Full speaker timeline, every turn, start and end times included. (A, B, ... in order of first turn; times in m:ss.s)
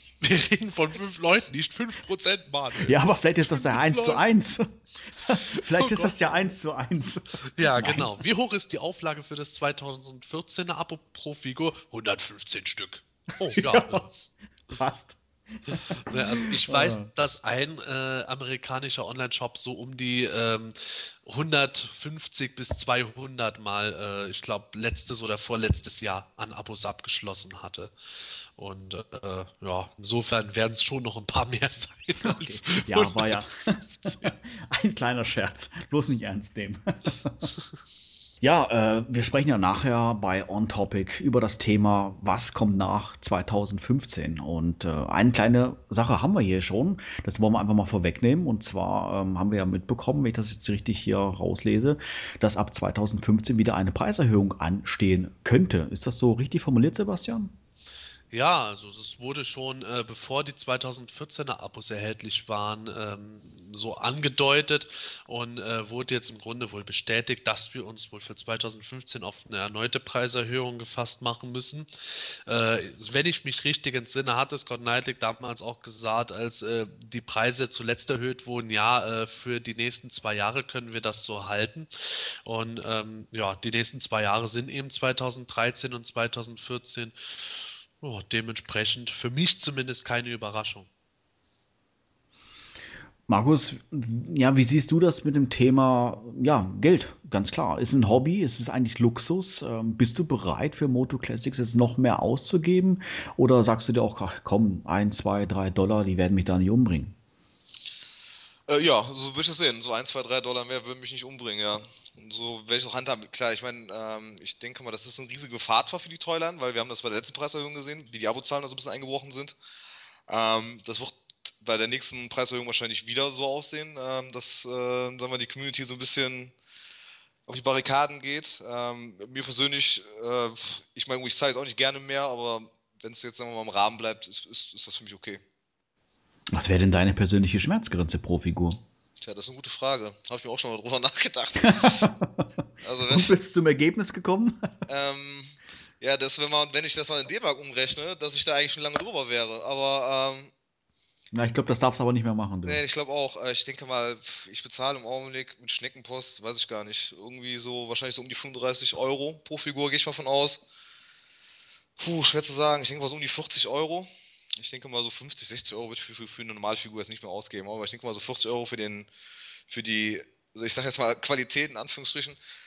0:00.2-0:04.2 A
0:02.9-0:08.1 B
0:05.8-0:06.5 A
0:07.5-0:14.1 A
0:13.5-0:14.0 B
0:14.7-0:17.1 B
0:16.0-0:27.9 A
0:28.6-0:33.5 A
0:32.2-0:37.5 B
0:34.0-0:34.3 A
0:38.4-0:57.5 B
0:58.3-1:30.9 A
1:33.3-1:47.1 B
1:48.7-1:59.6 C
2:00.3-2:06.5 C
2:07.5-2:15.4 C
2:16.5-2:18.8 B
2:19.2-2:22.1 C
2:21.6-2:22.5 B
2:22.8-2:23.3 C
2:23.1-2:24.7 B
2:24.9-2:30.5 C
2:31.3-2:32.8 B
2:32.6-2:40.6 C
2:42.0-2:49.1 C
2:49.7-2:52.4 C